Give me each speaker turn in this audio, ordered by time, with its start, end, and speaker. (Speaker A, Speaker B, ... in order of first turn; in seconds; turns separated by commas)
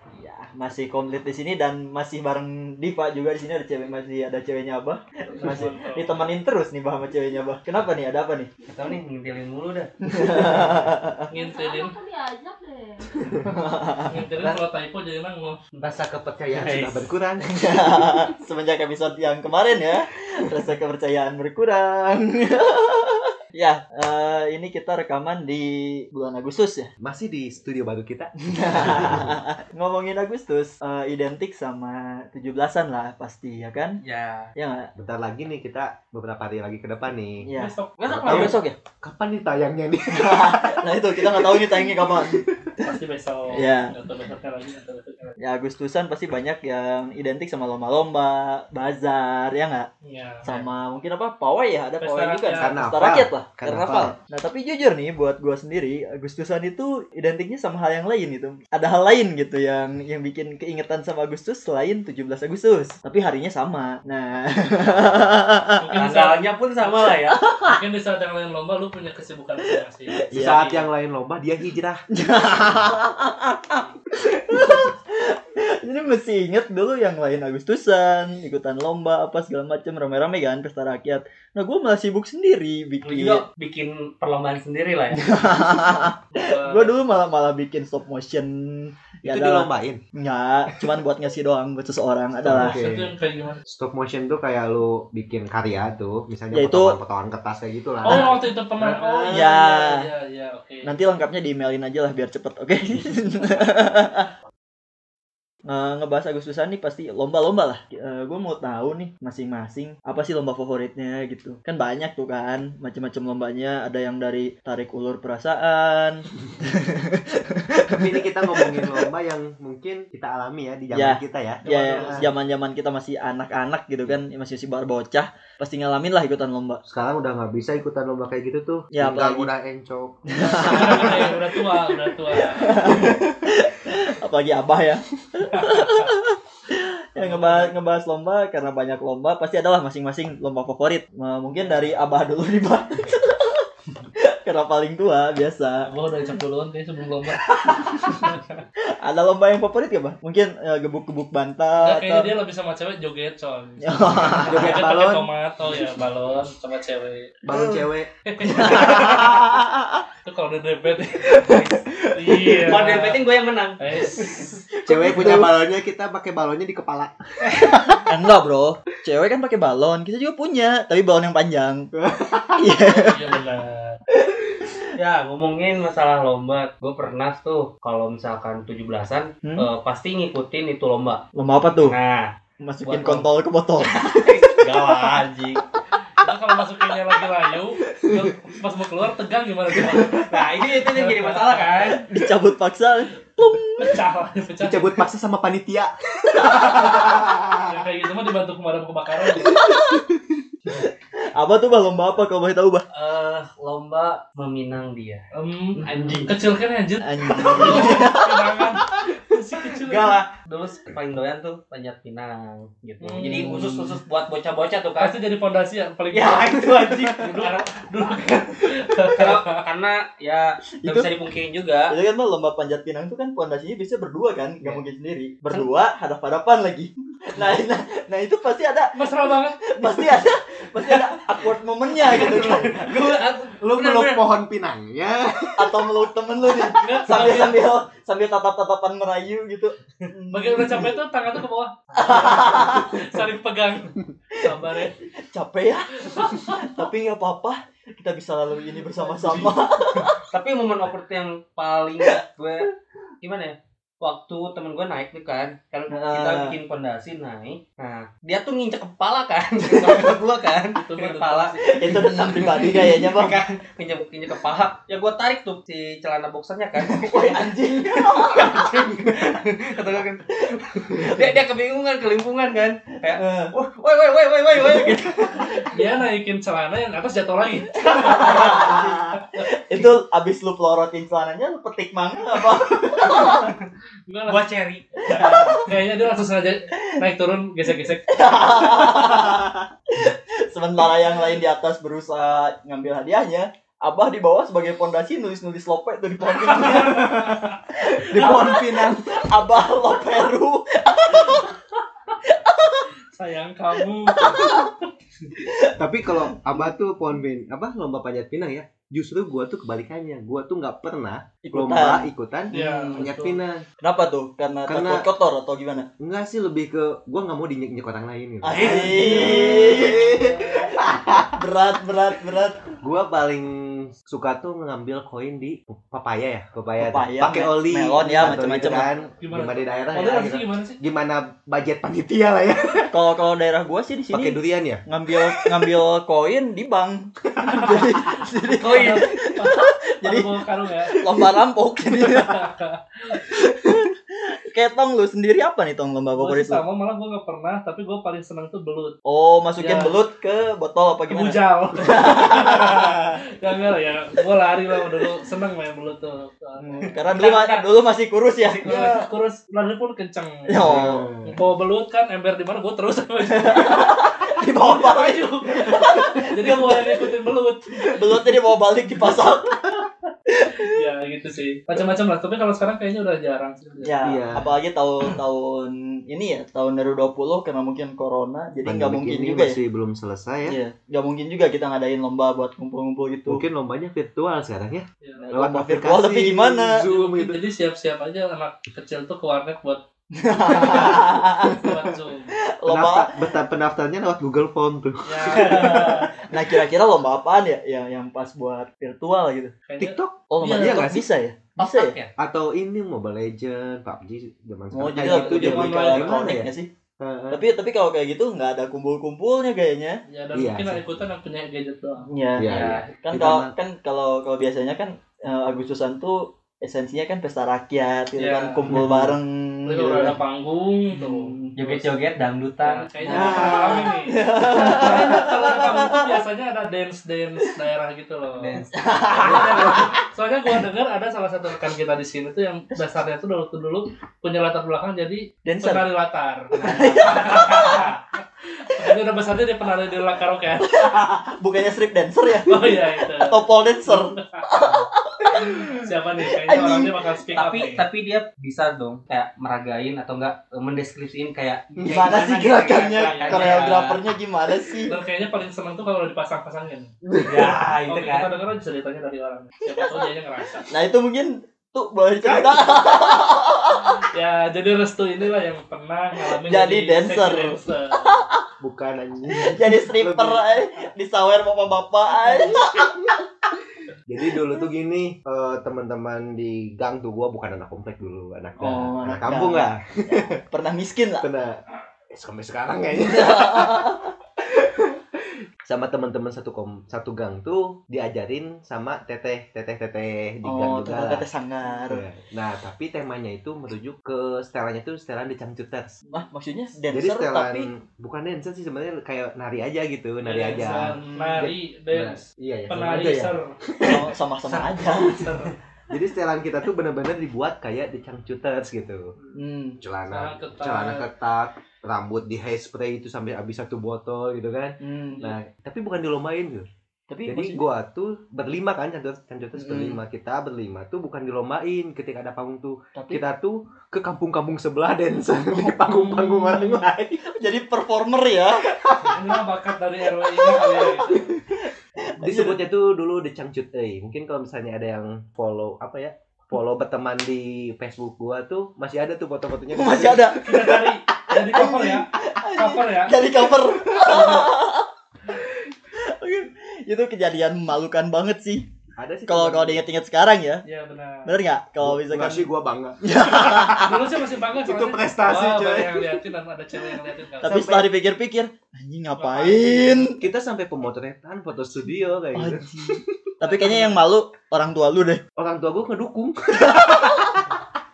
Speaker A: 0.2-8.5, Speaker B: 5.4-6.3, Speaker C: 8.7-10.6, Speaker A: 10.1-11.3, Speaker B: 11.3-12.0, Speaker D: 11.3-13.5, Speaker A: 13.5-14.6, Speaker B: 14.1-15.6, Speaker C: 15.7-17.1, Speaker E: 16.5-17.5, Speaker A: 17.5-26.9, Speaker E: 27.0-29.4, Speaker A: 28.5-34.0, Speaker C: 34.0-34.5, Speaker A: 34.5-34.9, Speaker E: 35.0-37.5, Speaker A: 37.4-37.7, Speaker B: 37.6-38.6, Speaker C: 38.0-38.5, Speaker E: 38.1-42.5, Speaker A: 38.2-38.8, Speaker A: 40.1-42.5, Speaker B: 42.8-45.4, Speaker A: 43.5-43.9, Speaker A: 45.4-49.9, Speaker B: 50.0-50.7, Speaker A: 50.4-66.0, Speaker B: 52.0-52.7, Speaker E: 52.6-54.1, Speaker B: 65.8-66.4, Speaker C: 66.0-67.4, Speaker A: 67.0-67.8, Speaker B: 67.6-70.9, Speaker A: 70.2-70.6, Speaker E: 70.3-72.0, Speaker A: 72.1-83.4, Speaker C: 83.0-85.3, Speaker A: 85.1-92.8, Speaker B: 86.3-86.9, Speaker E: 89.2-90.0, Speaker E: 92.4-93.1, Speaker B: 92.5-93.6, Speaker E: 93.7-99.5, Speaker A: 96.5-97.0, Speaker B: 98.0-100.9, Speaker A: 98.1-98.4, Speaker A: 99.3-100.1, Speaker A: 100.8-104.3, Speaker A: 105.7-119.1, Speaker E: 117.8-122.3, Speaker A: 120.9-126.8, Speaker B: 121.6-122.3, Speaker E: 126.8-131.3, Speaker A: 128.9-129.5, Speaker A: 130.3-131.4, Speaker B: 130.5-133.0, Speaker A: 132.3-145.9, Speaker B: 135.4-136.2, Speaker B: 137.2-137.8, Speaker B: 141.6-141.9, Speaker B: 145.8-148.6, Speaker A: 147.4-152.3, Speaker B: 151.8-157.4, Speaker A: 153.8-154.8, Speaker E: 154.3-155.3, Speaker E: 157.4-159.4, Speaker A: 157.5-157.8, Speaker B: 158.2-159.5, Speaker A: 158.4-160.0, Speaker B: 160.2-161.5, Speaker A: 161.2-162.8, Speaker C: 161.5-161.8, Speaker B: 162.1-163.2, Speaker C: 162.6-163.8, Speaker B: 163.8-164.6, Speaker A: 164.7-165.6, Speaker E: 164.8-168.0, Speaker A: 167.6-171.9, Speaker E: 171.9-172.7, Speaker A: 172.6-173.2, Speaker B: 172.9-174.0, Speaker C: 174.9-181.2, Speaker A: 181.3-181.9, Speaker C: 181.8-183.3, Speaker A: 182.6-185.0, Speaker C: 183.8-185.6, Speaker B: 186.1-191.9, Speaker E: 187.9-188.2, Speaker C: 190.2-192.0, Speaker A: 191.9-194.0, Speaker B: 193.8-195.0, Speaker E: 194.6-197.8, Speaker B: 196.7-199.6, Speaker A: 199.4-200.0, Speaker E: 199.5-199.8, Speaker A: 200.7-202.8, Speaker C: 202.9-206.4, Speaker B: 205.3-210.2, Speaker A: 207.0-208.7, Speaker C: 209.8-215.1, Speaker B: 213.0-213.7, Speaker A: 213.3-213.9, Speaker B: 215.0-219.6, Speaker C: 216.1-217.7, Speaker C: 219.1-221.9, Speaker A: 220.8-221.1, Speaker A: 221.9-232.9, Speaker B: 228.9-229.6, Speaker C: 230.9-231.4, Speaker C: 232.0-234.3, Speaker E: 232.1-232.7, Speaker E: 233.4-236.1, Speaker A: 235.6-240.9, Speaker B: 236.8-237.6, Speaker B: 240.3-245.0, Speaker A: 241.9-243.0, Speaker A: 244.3-250.2, Speaker B: 246.0-246.6, Speaker B: 248.9-249.5, Speaker C: 250.3-252.7, Speaker C: 253.2-275.7, Speaker A: 255.9-256.6, Speaker A: 259.7-260.1, Speaker B: 260.7-261.7, Speaker A: 261.7-263.4, Speaker A: 266.8-268.8, Speaker A: 271.0-271.4, Speaker A: 273.1-273.5, Speaker A: 274.6-275.5, Speaker B: 275.6-279.5, Speaker A: 277.8-283.5, Speaker C: 278.0-278.8, Speaker C: 283.0-283.7, Speaker B: 284.1-284.4, Speaker C: 284.3-285.4, Speaker A: 285.1-285.7, Speaker B: 285.1-288.4, Speaker A: 288.1-301.6, Speaker B: 296.5-297.6, Speaker E: 296.8-297.4, Speaker E: 298.0-299.3, Speaker A: 302.2-302.9, Speaker B: 303.1-304.8, Speaker A: 304.1-304.7, Speaker A: 305.4-305.7, Speaker E: 305.8-313.6, Speaker A: 306.4-306.6, Speaker A: 311.4-313.1, Speaker B: 312.5-313.4, Speaker A: 313.8-315.9, Speaker E: 314.7-315.1, Speaker E: 316.0-321.4, Speaker A: 318.4-320.3, Speaker C: 318.5-319.8, Speaker B: 318.6-320.7, Speaker A: 321.3-322.7, Speaker E: 322.8-332.9, Speaker A: 326.8-328.9, Speaker B: 329.1-330.8, Speaker A: 332.9-340.3, Speaker E: 334.1-335.7, Speaker E: 337.3-337.9, Speaker B: 338.4-341.0, Speaker C: 338.6-339.0, Speaker A: 340.9-342.5, Speaker B: 342.0-343.2, Speaker A: 343.3-346.6, Speaker B: 346.1-348.9, Speaker A: 349.0-353.1, Speaker B: 349.6-349.9, Speaker B: 351.1-357.1, Speaker A: 356.6-359.1, Speaker C: 357.1-357.6, Speaker C: 358.4-358.9, Speaker B: 358.6-368.0, Speaker A: 360.5-361.1, Speaker E: 360.6-361.4, Speaker A: 363.3-367.1, Speaker A: 367.9-370.8, Speaker B: 370.6-374.0, Speaker A: 373.8-379.6, Speaker E: 374.0-374.5, Speaker E: 378.6-380.6, Speaker A: 380.4-383.4, Speaker E: 383.3-387.4, Speaker B: 385.0-385.3, Speaker A: 385.2-386.8, Speaker B: 386.8-389.8, Speaker A: 390.2-391.8, Speaker B: 390.4-392.4, Speaker E: 390.7-391.0, Speaker A: 392.4-393.2, Speaker E: 392.7-396.1, Speaker B: 395.0-396.2, Speaker A: 395.3-399.5, Speaker B: 399.6-400.9, Speaker E: 399.8-401.1, Speaker A: 400.3-401.9, Speaker C: 401.6-402.1, Speaker E: 402.2-407.4, Speaker A: 404.7-406.7, Speaker B: 405.0-406.3, Speaker A: 407.3-410.0, Speaker B: 410.1-412.1, Speaker E: 410.3-410.9, Speaker A: 412.1-420.2, Speaker E: 412.4-413.5, Speaker C: 412.5-412.9, Speaker B: 418.2-418.8, Speaker E: 418.7-419.1, Speaker B: 419.6-421.4, Speaker A: 420.9-421.8, Speaker C: 421.6-423.9, Speaker B: 422.6-428.6, Speaker A: 423.0-426.2, Speaker C: 428.4-429.1, Speaker A: 428.7-430.0, Speaker B: 429.1-440.9, Speaker E: 429.2-429.7, Speaker A: 435.4-435.9, Speaker A: 436.5-437.9, Speaker A: 440.7-447.0, Speaker B: 442.5-444.5, Speaker B: 445.3-447.8, Speaker C: 447.3-454.0, Speaker E: 451.8-452.1, Speaker A: 451.8-454.9, Speaker B: 452.9-453.8, Speaker B: 454.9-456.9, Speaker E: 457.1-457.7, Speaker C: 457.2-458.3, Speaker B: 457.9-460.7, Speaker A: 459.8-460.0, Speaker A: 460.7-464.1, Speaker E: 462.2-462.6, Speaker B: 463.8-468.2, Speaker A: 466.2-468.4, Speaker E: 468.6-470.4, Speaker A: 469.3-473.0, Speaker E: 472.2-473.2, Speaker E: 474.1-480.4, Speaker A: 478.6-481.2, Speaker E: 481.2-485.0, Speaker A: 482.9-484.1, Speaker E: 485.6-491.2, Speaker A: 490.4-492.0, Speaker E: 491.8-496.0, Speaker A: 496.1-497.7, Speaker E: 496.9-504.1, Speaker B: 500.2-503.6, Speaker A: 500.5-501.5, Speaker A: 503.8-505.4, Speaker C: 504.5-505.0, Speaker B: 504.9-505.6, Speaker E: 505.9-509.1, Speaker A: 509.3-509.8, Speaker E: 509.8-516.7, Speaker B: 510.1-511.1, Speaker A: 514.8-515.3, Speaker A: 517.1-517.6, Speaker E: 517.2-527.2, Speaker A: 519.5-520.0, Speaker A: 522.9-523.2, Speaker A: 525.5-528.7, Speaker E: 528.7-529.2, Speaker B: 529.0-531.3, Speaker A: 530.4-532.6, Speaker E: 532.2-540.8, Speaker A: 539.7-548.7, Speaker B: 540.4-543.2, Speaker E: 544.0-544.4, Speaker E: 549.0-549.8, Speaker A: 549.3-550.6, Speaker B: 550.6-551.3, Speaker A: 551.2-552.5, Speaker E: 551.8-554.0, Speaker A: 553.0-554.0, Speaker B: 553.7-557.6, Speaker E: 554.5-556.2, Speaker A: 557.4-560.2, Speaker E: 557.4-557.9, Speaker B: 559.2-560.0, Speaker E: 560.1-563.1, Speaker A: 562.3-565.2, Speaker B: 563.4-564.0, Speaker E: 565.4-567.4